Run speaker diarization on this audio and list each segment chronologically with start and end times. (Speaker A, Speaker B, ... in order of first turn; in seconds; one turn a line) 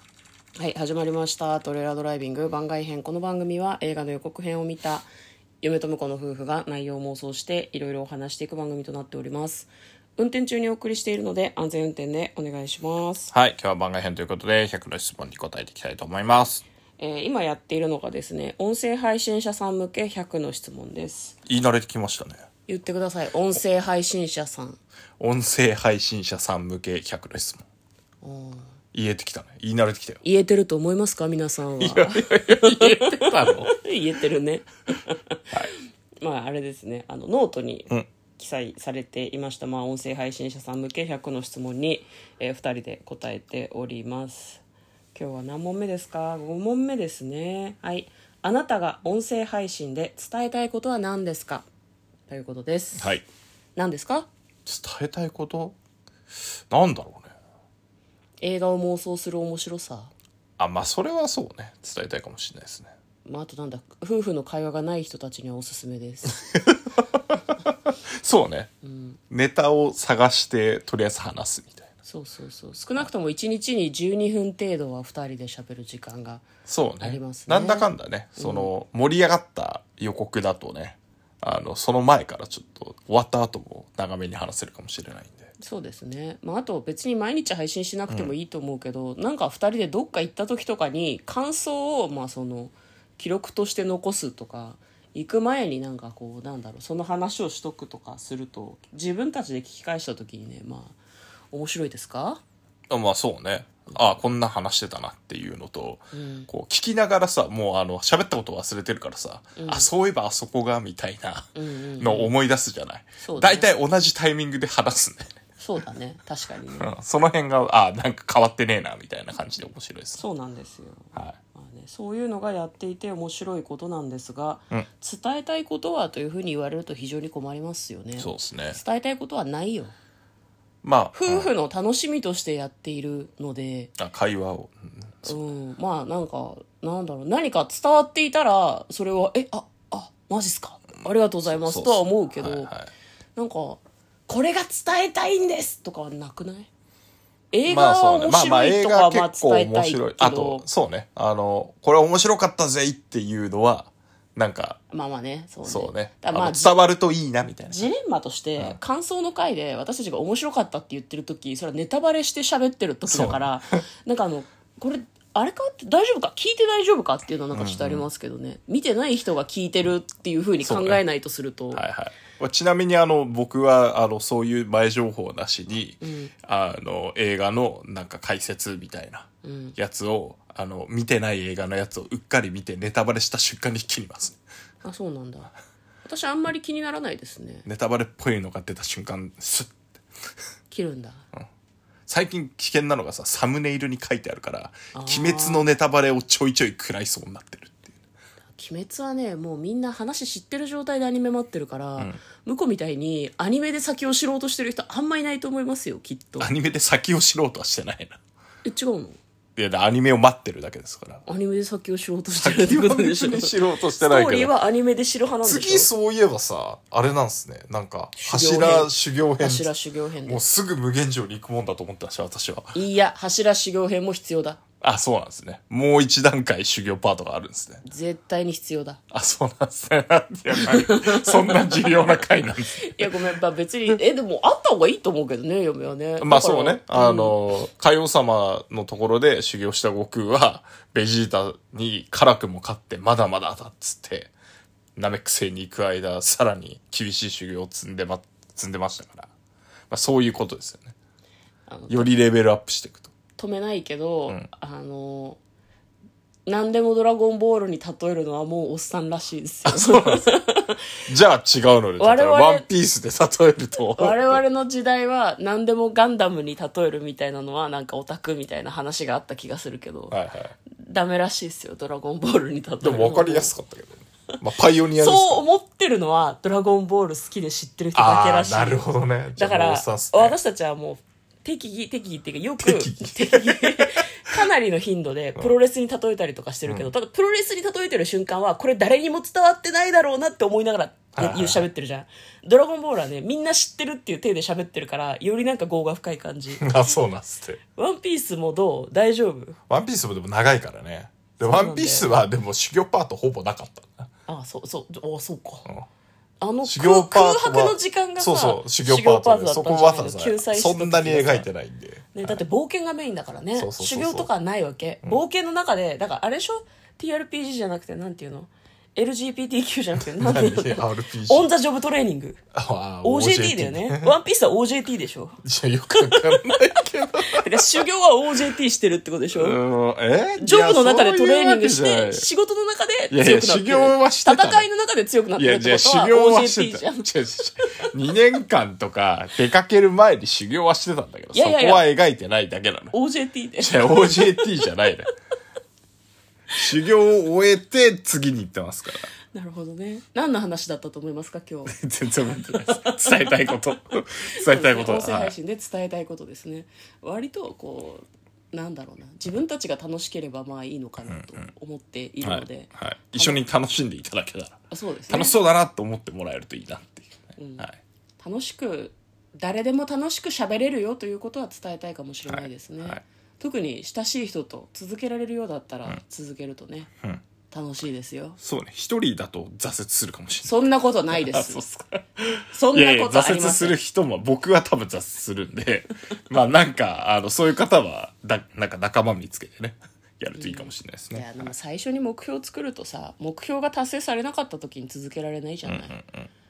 Speaker A: 0.6-5.1
Speaker A: 5.6-13.3
Speaker B: 13.3-16.6
Speaker A: 17.0-21.4
Speaker B: 21.4-22.4
Speaker A: 22.7-24.8
Speaker B: 25.2-27.6
Speaker A: 28.2-28.7
Speaker B: 28.9-30.2
Speaker A: 30.2-35.4
Speaker B: 31.8-33.7
Speaker A: 36.2-44.6
Speaker A: 45.1-51.7
Speaker A: 52.3-53.1
Speaker B: 53.0-53.2
Speaker A: 53.8-54.3
Speaker B: 54.6-55.7
Speaker B: 56.7-57.3
Speaker A: 58.4-60.1
Speaker B: 60.6-62.9
Speaker A: 63.2-66.4
Speaker B: 66.5-67.4
Speaker B: 68.1-68.7
Speaker A: 68.8-69.2
Speaker B: 69.3-71.9
Speaker A: 72.1-76.4
Speaker B: 76.7-85.5
Speaker A: 77.0-78.7
Speaker A: 85.6-101.0
Speaker B: 88.1-88.3
Speaker A: 101.5-102.4
Speaker B: 102.9-115.3
Speaker A: 106.1-106.5
Speaker A: 109.6-109.9
Speaker A: 111.5-112.3
Speaker A: 113.2-113.7
Speaker A: 115.6-116.9
Speaker B: 116.8-120.2
Speaker A: 120.2-129.9
Speaker B: 128.2-128.8
Speaker B: 130.8-131.5
Speaker A: 131.1-133.9
Speaker B: 134.0-135.3
Speaker A: 135.2-142.7
Speaker B: 141.4-142.9
Speaker A: 143.3-146.7
Speaker A: 147.5-150.6
Speaker B: 147.7-154.8
Speaker A: 154.9-156.7
Speaker B: 155.7-157.8
Speaker A: 157.7-171.8
Speaker B: 163.1-163.7
Speaker B: 167.5-168.1
Speaker B: 170.6-171.0
Speaker B: 171.7-184.4
Speaker A: 176.0-176.3
Speaker A: 179.4-179.8
Speaker A: 184.8-185.5
Speaker A: 186.0-187.7
Speaker B: 187.7-189.8
Speaker A: 190.7-191.2
Speaker B: 192.1-197.9
Speaker A: 194.9-195.7
Speaker A: 198.5-206.5
Speaker B: 206.4-208.2
Speaker A: 208.6-209.2
Speaker B: 209.6-211.2
Speaker A: 211.2-215.9
Speaker B: 212.3-214.6
Speaker B: 215.4-219.7
Speaker A: 218.2-220.4
Speaker B: 220.2-222.8
Speaker A: 222.7-224.6
Speaker B: 224.8-227.8
Speaker A: 227.8-229.0
Speaker B: 229.1-233.2
Speaker A: 230.6-231.9
Speaker A: 232.8-237.3
Speaker B: 236.2-244.3
Speaker B: 244.9-249.3
Speaker B: 249.9-250.9
Speaker A: 251.7-252.1
Speaker B: 251.9-253.1
Speaker A: 253.4-255.4
Speaker A: 256.4-260.8
Speaker B: 259.6-260.3
Speaker B: 261.1-264.4
Speaker A: 262.0-262.7
Speaker A: 263.9-270.2
Speaker B: 270.1-270.5
Speaker A: 270.7-273.5
Speaker B: 272.8-275.4
Speaker A: 275.0-296.8
Speaker B: 277.9-280.4
Speaker B: 282.6-284.5
Speaker B: 291.1-291.6
Speaker B: 296.6-297.6
Speaker A: 297.7-299.6
Speaker B: 299.7-304.1
Speaker A: 301.4-302.1
Speaker A: 304.3-305.7
Speaker A: 306.4-311.5
Speaker B: 306.6-312.4
Speaker A: 312.1-322.4
Speaker B: 313.5-314.3
Speaker B: 320.2-321.5
Speaker B: 322.5-324.1
Speaker A: 323.0-325.4
Speaker B: 325.4-327.8
Speaker A: 326.0-326.6
Speaker A: 327.2-329.6
Speaker B: 329.3-332.2
Speaker A: 330.4-337.8
Speaker B: 333.1-334.7
Speaker B: 335.4-342.9
Speaker A: 341.3-341.9
Speaker A: 342.9-344.4
Speaker B: 343.6-345.1
Speaker B: 346.5-349.1
Speaker A: 349.3-351.7
Speaker B: 351.6-355.3
Speaker A: 352.7-353.4
Speaker A: 354.3-363.4
Speaker B: 361.1-361.5
Speaker B: 362.2-364.6
Speaker A: 364.7-365.3
Speaker B: 365.1-367.8
Speaker A: 367.4-367.7
Speaker A: 368.2-376.9
Speaker B: 372.3-373.0
Speaker A: 377.5-378.4
Speaker B: 378.4-391.5
Speaker A: 380.4-381.6
Speaker A: 382.5-383.8
Speaker A: 390.4-395.9
Speaker B: 395.6-396.3